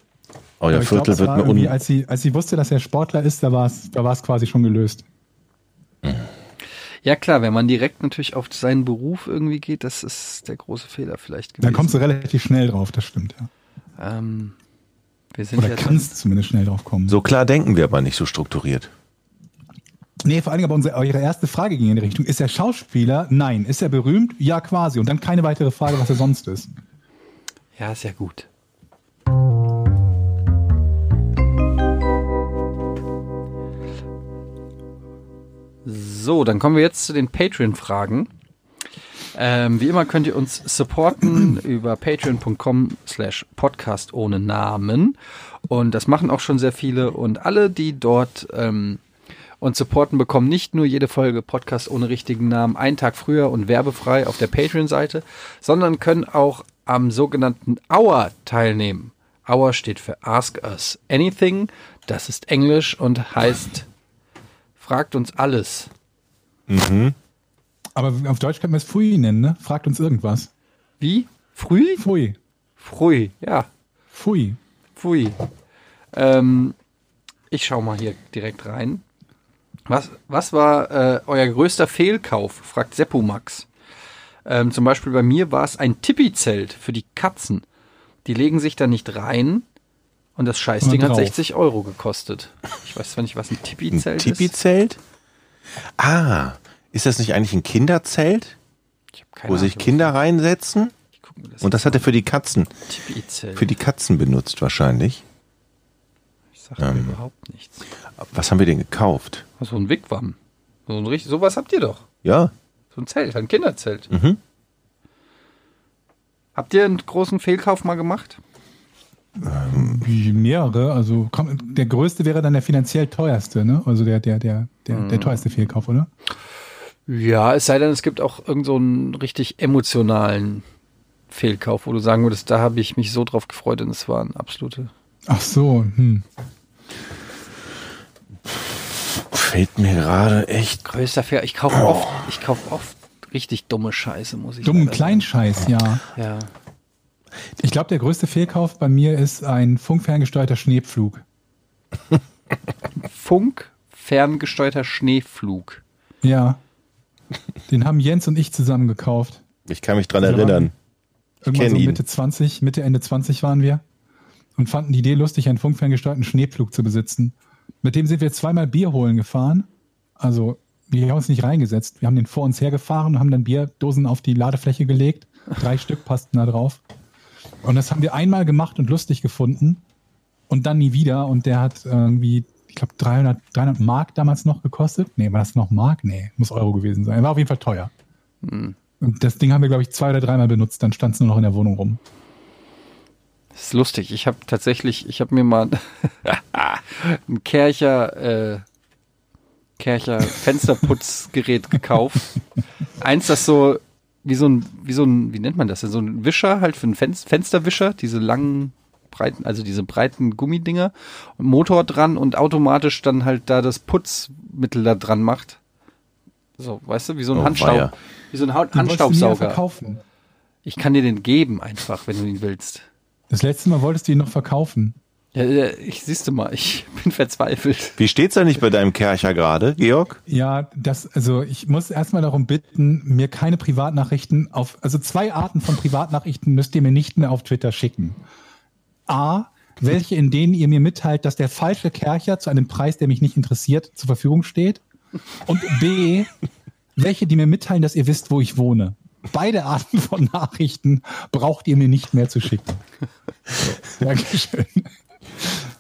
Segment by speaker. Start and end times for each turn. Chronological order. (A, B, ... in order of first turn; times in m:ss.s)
0:00.6-0:01.7 A
0:00.7-0:05.0 B
0:07.0-0:12.0 C
0:11.6-0:13.5 B
0:14.0-0:14.5 C
0:15.3-0:16.1 C
0:15.6-0:17.2 B
0:17.1-0:18.9 A
0:20.2-0:26.7 B
0:27.8-0:28.5 C
0:35.8-0:38.3 C
0:39.3-0:45.1 C
0:45.7-0:49.0 C
0:49.6-1:03.9 C
1:04.8-1:05.9 C
1:06.7-1:07.1 A
1:07.9-1:10.5 B
1:11.0-1:12.0 C
1:12.0-1:12.4 B
1:12.8-1:13.7 C
1:14.1-1:14.6 B
1:15.0-1:15.4 C
1:16.1-1:16.7 C
1:17.5-1:19.0 C
1:19.9-1:23.7 C
1:24.4-1:27.6 C
1:28.2-1:29.6 C
1:30.4-1:34.5 C
1:30.8-1:31.4 B
1:33.9-1:35.0 A
1:36.0-1:38.6 A
1:39.2-1:40.1 C
1:39.5-1:40.9 A
1:41.2-1:42.1 C
1:41.6-1:42.7 A
1:42.9-1:43.7 C
1:43.5-1:45.2 A
1:46.6-1:47.8 C
1:46.8-1:47.2 A
1:48.2-1:49.4 A
1:49.6-1:50.4 C
1:50.9-1:52.0 C
1:52.2-1:52.5 A
1:52.9-1:54.1 C
1:54.1-1:54.4 A
1:56.5-1:58.4 C
1:59.4-2:00.0 A
1:59.7-2:06.1 B
2:04.9-2:05.4 C
2:07.1-2:10.6 C
2:11.3-2:14.9 C
2:15.3-2:16.2 B
2:18.5-2:20.8 A
2:20.8-2:25.2 C
2:24.6-2:26.0 B
2:26.1-2:26.5 C
2:27.6-2:31.2 B
2:33.0-2:35.8 C
2:36.2-2:36.6 B
2:37.7-2:39.4 B
2:39.7-2:40.7 A
2:40.2-2:40.7 B
2:41.4-2:43.8 B
2:41.5-2:42.0 A
2:44.5-2:56.8 B
2:57.6-2:59.8 B
3:00.5-3:07.9 B
3:08.4-3:08.8 C
3:09.0-3:12.0 B
3:13.5-3:18.6 C
3:19.8-3:22.4 C
3:23.0-3:35.6 C
3:36.6-3:39.6 C
3:37.3-3:37.9 A
3:38.7-3:40.0 B
3:40.6-3:42.8 C
3:43.3-3:45.0 B
3:45.3-3:48.0 C
3:48.0-3:50.2 A
3:50.3-3:58.2 B
3:59.1-4:04.8 B
4:05.4-4:06.3 B
4:07.0-4:12.8 B
4:13.5-4:15.7 B